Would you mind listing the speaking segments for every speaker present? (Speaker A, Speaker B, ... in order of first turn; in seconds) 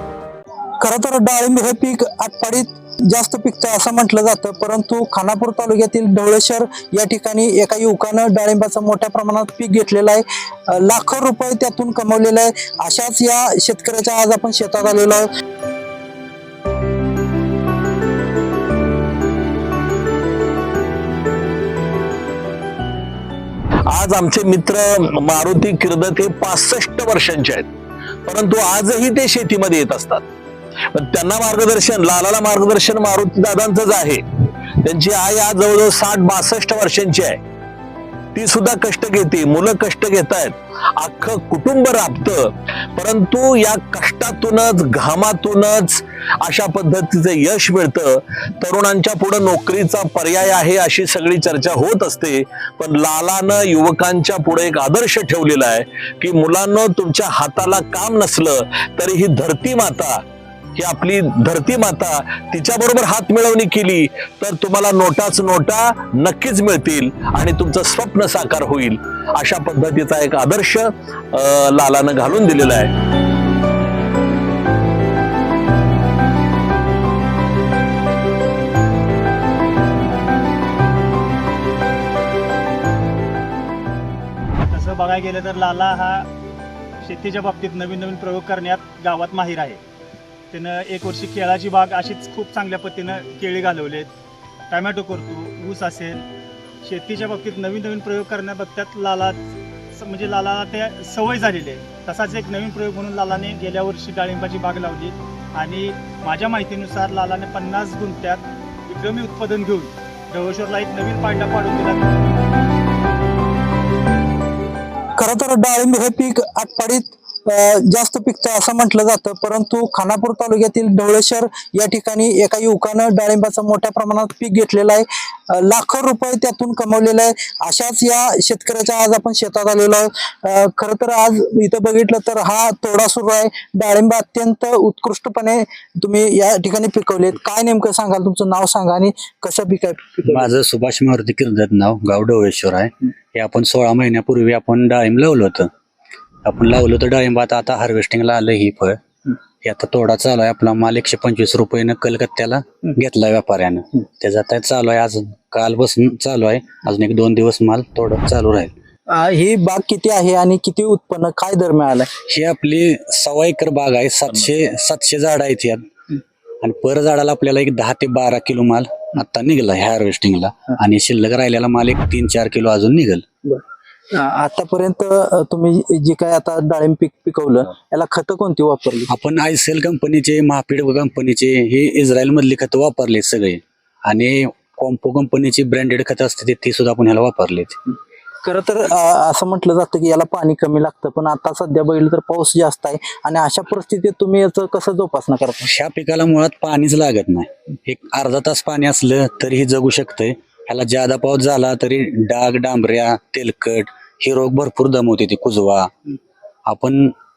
Speaker A: 0.8-15.3, 115.2-140.5, 159.1-162.1, 174.1-179.1, 188.4-195.7
Speaker B: 23.9-27.7, 28.2-30.2, 30.9-34.2, 34.8-37.4, 38.3-60.2, 60.8-72.9
Speaker C: 84.7-86.3, 87.0-89.8, 90.5-94.1, 94.7-96.2, 96.8-99.4, 100.0-112.1
Speaker D: 140.3-145.7, 146.4-149.0, 149.6-158.7, 162.3-165.8, 166.6-173.2, 179.1-187.8, 195.7-205.9, 206.7-207.1